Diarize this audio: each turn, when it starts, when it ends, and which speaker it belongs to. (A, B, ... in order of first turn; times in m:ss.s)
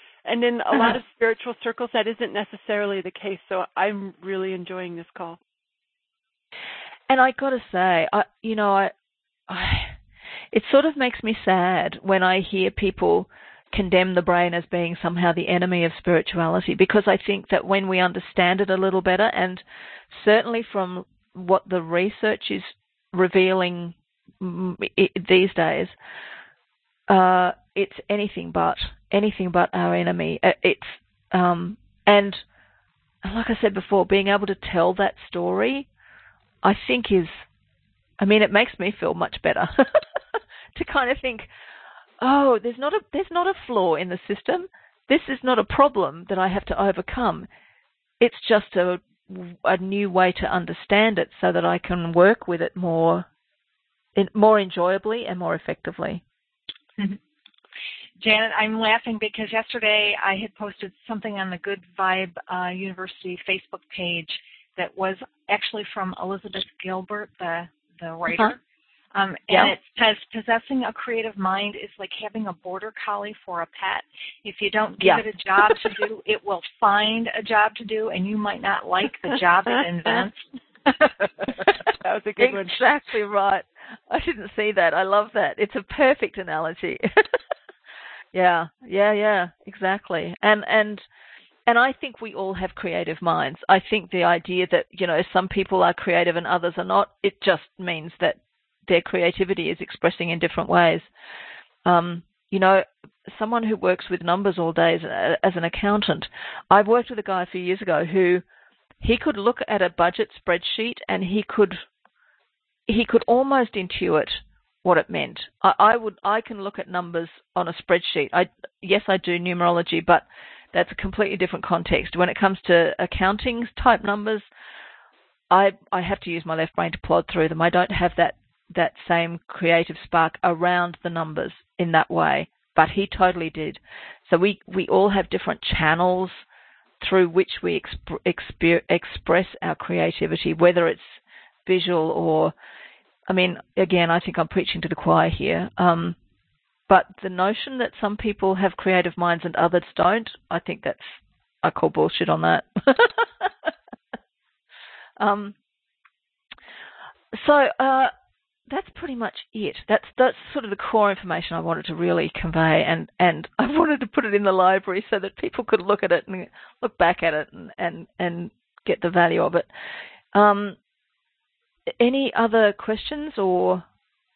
0:00.2-0:05.4 A
0:07.1-0:08.9 B
0:09.5-0:09.9 B
0:10.5-0:26.0 B
0:27.1-0:32.4 B
0:33.2-0:35.9 B
0:36.6-0:37.4 B
0:38.2-0:40.0 B
0:40.8-0:41.5 B
0:42.2-0:47.5 B
0:48.2-0:53.3 B
0:54.2-0:56.2 B
0:58.2-1:08.6 C
1:08.3-1:08.6 B
1:09.1-1:21.5 C
1:21.9-1:22.8 A
1:22.4-1:27.1 B
1:28.3-1:31.0 B
1:31.7-1:41.1 B
1:41.8-1:48.4 B
1:49.0-1:51.8 B
1:52.9-2:04.4 B
2:05.5-2:16.4 B
2:17.0-2:22.5 B
2:23.3-2:26.2 B
2:26.9-2:33.7 B
2:35.2-2:35.6 B
2:37.3-2:38.1 B
2:38.7-2:49.7 B
2:50.3-2:50.8 B
2:52.0-2:53.8 B